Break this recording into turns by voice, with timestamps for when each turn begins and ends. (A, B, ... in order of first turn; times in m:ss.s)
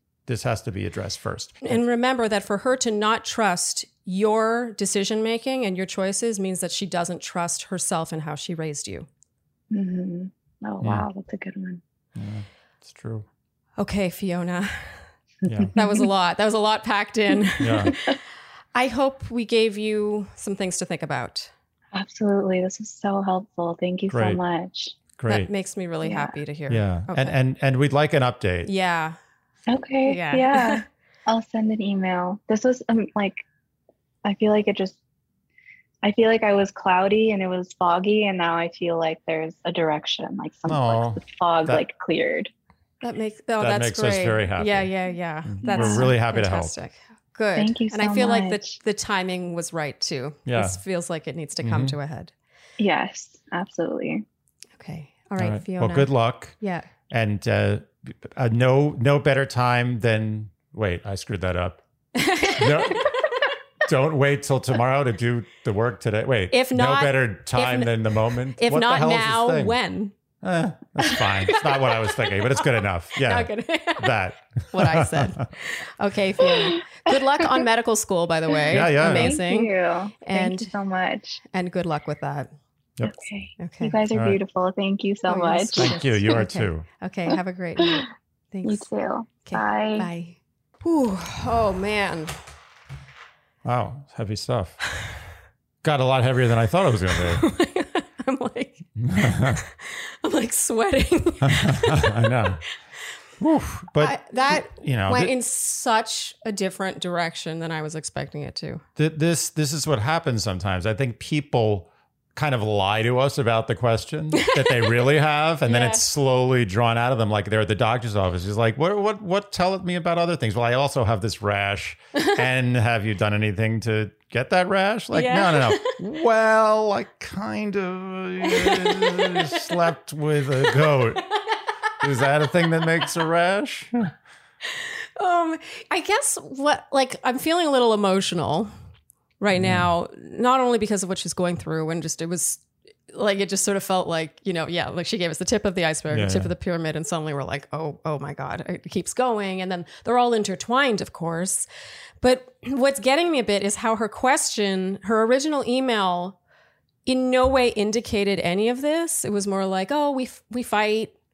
0:00.3-0:01.8 A
0:01.6-0:09.1 B
0:09.7-0:11.8 C
0:12.1-0:13.2 A
0:13.8-0:15.0 B
0:15.4-0:15.7 A
0:15.4-0:16.0 C
0:15.7-0:18.2 B
0:17.6-0:17.9 A
0:18.7-0:21.5 B
0:21.9-0:25.0 C
0:24.1-0:24.4 A
0:25.2-0:25.5 A
0:25.3-0:27.3 B
0:26.0-0:26.3 C
0:26.7-0:28.7 A
0:28.6-0:29.2 B
0:29.7-0:33.4 C
0:30.0-0:30.8 B
0:34.2-0:35.0 C
0:36.0-0:42.5 C
0:40.7-0:41.8 A
0:43.0-0:52.3 B
0:43.6-0:44.9 A
0:45.4-0:46.7 A
0:45.6-0:46.1 C
0:47.6-0:48.8 C
0:50.5-0:50.8 A
0:51.6-0:52.0 A
0:52.8-0:54.2 C
0:54.8-0:56.9 B
0:55.4-0:56.5 A
0:57.1-1:01.8 A
1:02.1-1:03.4 B
1:02.4-1:03.1 A
1:03.8-1:09.8 A
1:06.5-1:08.0 B
1:08.5-1:10.1 B
1:10.4-1:15.5 A
1:11.0-1:19.7 B
1:16.4-1:17.5 C
1:18.7-1:19.4 A
1:18.7-1:21.4 C
1:20.2-1:20.7 B
1:21.5-1:22.5 B
1:23.0-1:25.9 C
1:23.6-1:24.0 B
1:24.1-1:24.4 A
1:25.3-1:28.9 B
1:25.8-1:26.8 A
1:28.6-1:30.1 C
1:29.4-1:32.4 B
1:33.6-1:34.8 A
1:35.8-1:37.4 A
1:37.4-1:42.4 B
1:39.0-1:39.6 A
1:41.4-1:42.6 A
1:43.4-1:45.3 A
1:44.0-1:48.8 B
1:49.0-2:11.3 A
1:54.4-1:54.8 B
1:55.6-1:56.0 B
2:05.1-2:06.0 B
2:08.4-2:09.6 B
2:10.7-2:11.0 B
2:12.0-2:14.1 A
2:14.7-2:18.7 B
2:19.4-2:31.7 B
2:19.5-2:19.9 A
2:26.1-2:26.5 A
2:32.2-2:36.4 B
2:37.0-2:41.1 B